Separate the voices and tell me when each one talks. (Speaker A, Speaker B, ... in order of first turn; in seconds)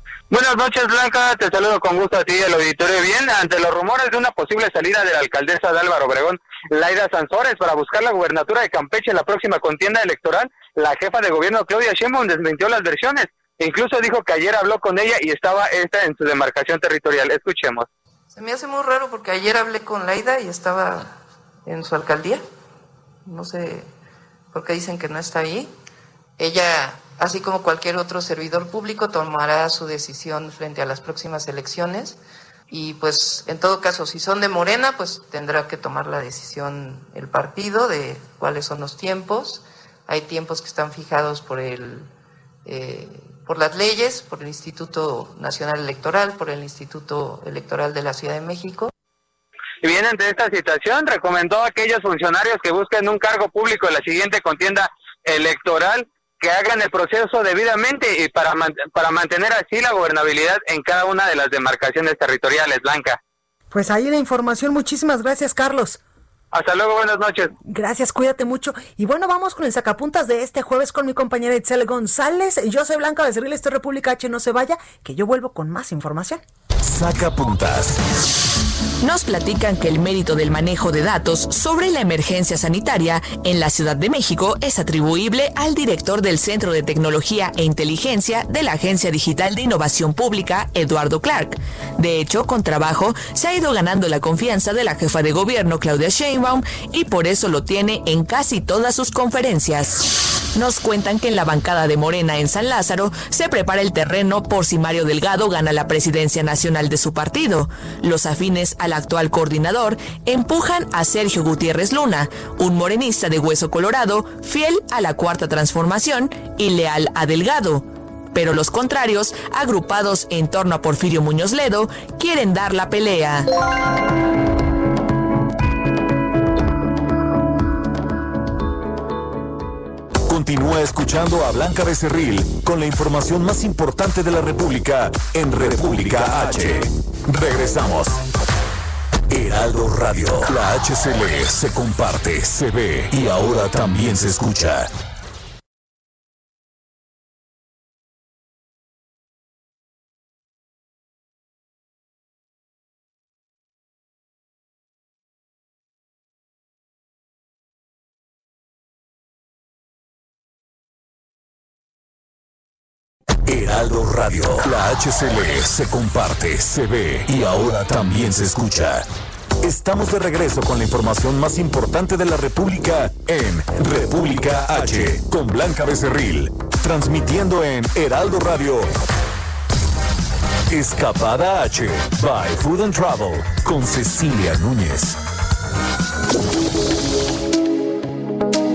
Speaker A: 0.3-17.9, 49.8-63.2, 66.5-67.5
Speaker B: 18.3-21.1, 21.6-22.4, 23.2-23.9, 24.5-25.7, 26.4-42.1, 42.6-48.9
Speaker C: 63.7-66.0, 67.7-76.4
Speaker D: 76.8-78.0, 130.3-138.2, 139.3-144.9, 163.4-169.1, 169.6-178.9, 180.7-185.2
Speaker E: 79.0-123.5